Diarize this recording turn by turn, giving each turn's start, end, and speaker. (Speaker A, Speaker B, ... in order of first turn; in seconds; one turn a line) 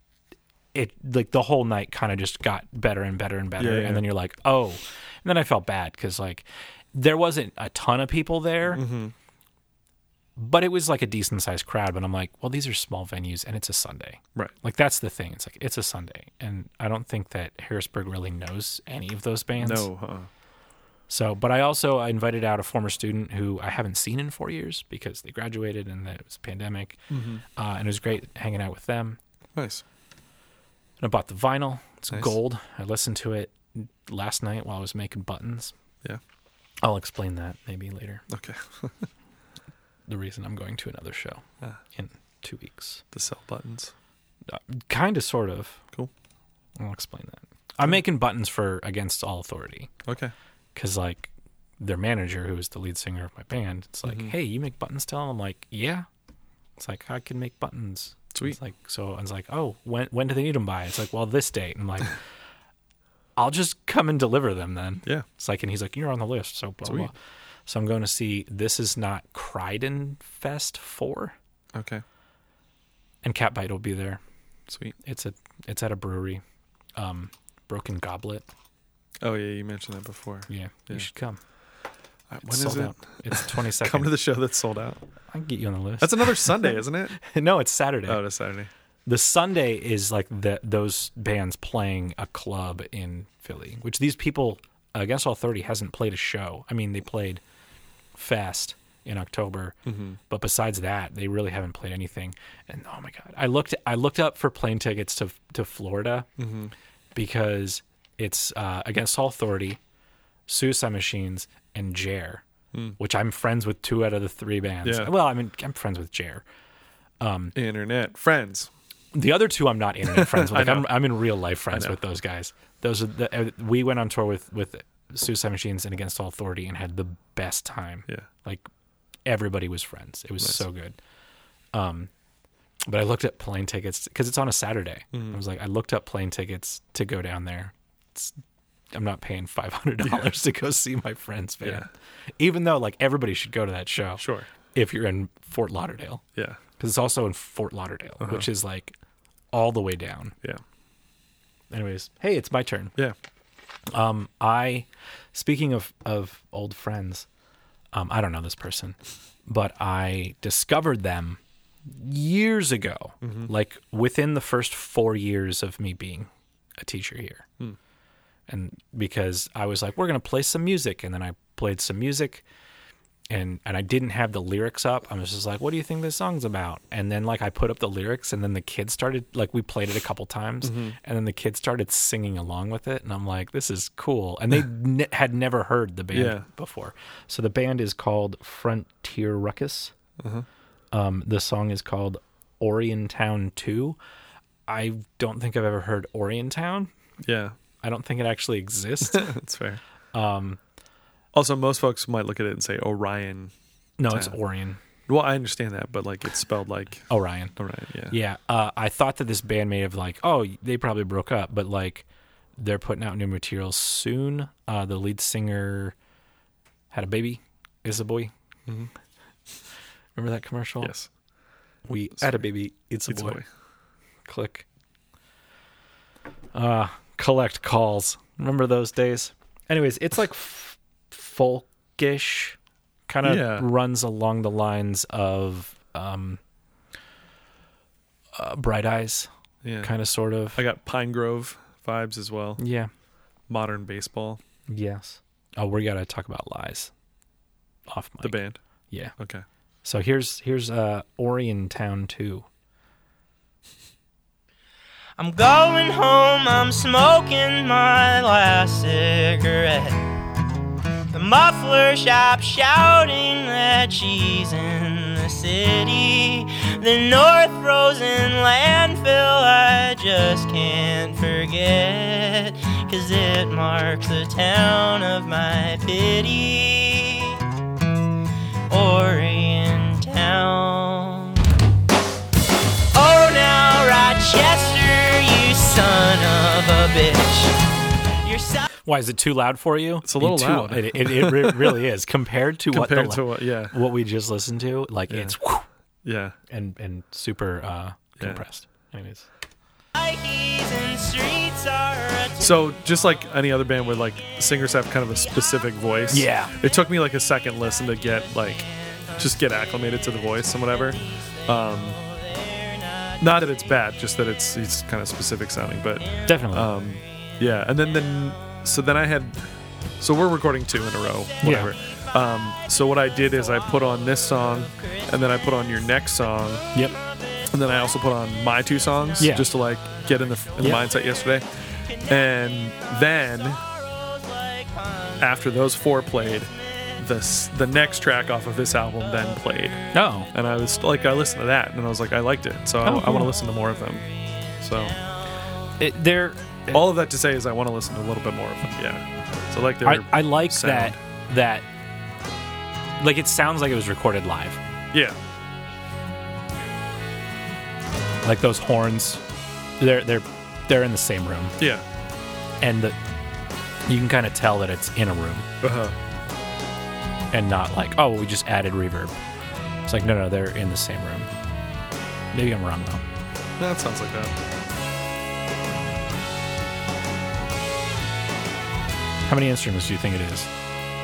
Speaker A: 0.7-8.8
Speaker B: 3.6-4.1
Speaker B: 8.7-9.1
Speaker A: 10.4-19.9
Speaker B: 19.6-20.3
Speaker A: 21.1-27.0
Speaker B: 27.1-27.4
Speaker A: 27.5-29.2
Speaker B: 29.6-29.8
Speaker A: 31.0-35.7
Speaker A: 36.8-38.2
Speaker B: 38.3-39.1
Speaker A: 40.1-43.0
Speaker B: 43.1-43.9
Speaker A: 44.5-45.8
Speaker A: 46.8-49.9
Speaker B: 50.1-50.3
Speaker A: 50.8-56.1
Speaker B: 54.0-54.3
Speaker A: 56.8-62.2
Speaker A: 63.4-67.1
Speaker B: 66.8-67.1
Speaker A: 67.7-71.3
Speaker B: 71.8-72.0
Speaker A: 73.2-74.2
Speaker B: 74.7-75.0
Speaker A: 75.0-76.4
Speaker A: 77.0-78.5
Speaker B: 79.2-81.1
Speaker A: 80.5-81.4
Speaker B: 82.3-85.0
Speaker A: 82.4-84.2
Speaker A: 85.3-88.2
Speaker B: 86.0-87.2
Speaker B: 88.1-88.7
Speaker A: 89.1-97.4
Speaker A: 98.2-99.8
Speaker B: 99.9-100.2
Speaker A: 100.3-106.3
Speaker B: 106.4-106.7
Speaker A: 107.1-109.8
Speaker A: 110.5-112.4
Speaker A: 113.0-116.4
Speaker B: 114.8-115.1
Speaker A: 117.2-117.5
Speaker B: 117.5-118.7
Speaker A: 119.1-128.7
Speaker B: 120.1-121.1
Speaker B: 121.7-122.0
Speaker A: 129.2-131.0
Speaker A: 131.7-132.1
Speaker A: 132.8-138.4
Speaker B: 135.1-135.4
Speaker A: 138.9-141.9
Speaker B: 140.0-140.3
Speaker B: 141.6-141.9
Speaker A: 142.4-146.2
Speaker B: 144.2-144.5
Speaker B: 146.3-146.6
Speaker A: 146.8-148.9
Speaker B: 148.2-148.5
Speaker A: 149.5-150.4
Speaker A: 151.7-152.9
Speaker A: 153.9-157.3
Speaker A: 157.9-167.5
Speaker B: 163.2-163.5
Speaker A: 168.5-172.4
Speaker A: 173.3-189.9
Speaker B: 180.6-181.0
Speaker B: 186.1-186.5
Speaker B: 190.2-190.5
Speaker A: 190.9-194.0
Speaker A: 194.7-196.9
Speaker B: 197.2-197.6
Speaker A: 197.8-199.3
Speaker B: 199.0-199.8
Speaker A: 200.1-200.6
Speaker B: 201.3-203.5
Speaker A: 204.0-204.8
Speaker B: 204.1-204.4
Speaker B: 205.1-208.2
Speaker A: 207.1-207.6
Speaker A: 208.1-212.1
Speaker A: 212.6-215.9
Speaker A: 216.9-218.3
Speaker A: 220.2-220.9
Speaker B: 220.8-221.1
Speaker A: 221.9-223.4
Speaker B: 223.1-223.5
Speaker A: 224.2-224.7
Speaker A: 226.5-236.4
Speaker B: 233.2-233.7
Speaker A: 238.3-239.3
Speaker B: 239.6-239.9
Speaker A: 239.8-240.6
Speaker B: 240.6-242.6
Speaker A: 242.6-242.9
Speaker B: 243.5-244.4
Speaker A: 244.7-246.9
Speaker A: 247.9-248.4
Speaker B: 248.2-248.6
Speaker B: 249.2-249.4
Speaker A: 249.8-252.5
Speaker C: 255.2-260.1
Speaker C: 261.1-277.4
Speaker C: 278.7-281.4
Speaker C: 282.9-287.6
Speaker C: 288.2-288.7
Speaker A: 288.8-295.7
Speaker B: 290.0-291.8
Speaker B: 292.7-293.8
Speaker B: 295.1-295.4
Speaker B: 296.1-296.4
Speaker A: 296.5-299.3
Speaker B: 298.2-298.5
Speaker C: 299.9-302.7
Speaker B: 302.4-312.0
Speaker C: 305.3-306.3
Speaker A: 306.1-306.6
Speaker C: 308.6-313.3
Speaker B: 313.2-319.4
Speaker C: 316.0-316.9
Speaker A: 316.2-316.7
Speaker C: 317.6-318.1
Speaker B: 320.0-326.7
Speaker A: 321.4-321.7
Speaker C: 321.4-325.1
Speaker C: 326.8-327.9
Speaker B: 327.5-331.5
Speaker C: 329.1-329.4
Speaker A: 329.2-329.5
Speaker A: 330.6-330.8
Speaker C: 330.6-331.1
Speaker C: 331.9-335.3
Speaker B: 332.0-333.6
Speaker B: 335.2-344.1
Speaker A: 339.9-340.3
Speaker A: 342.8-343.3
Speaker C: 343.3-345.3
Speaker B: 344.6-345.0
Speaker A: 345.8-346.9
Speaker B: 346.7-351.0
Speaker A: 349.8-351.7
Speaker A: 353.0-354.6
Speaker B: 354.9-355.2
Speaker A: 358.2-359.2
Speaker A: 359.8-361.6
Speaker B: 361.6-361.8
Speaker A: 362.6-363.0
Speaker A: 363.9-365.5
Speaker B: 365.6-366.0
Speaker A: 367.3-369.2
Speaker A: 369.9-371.3
Speaker A: 372.3-373.1
Speaker B: 373.6-374.4
Speaker A: 379.3-380.5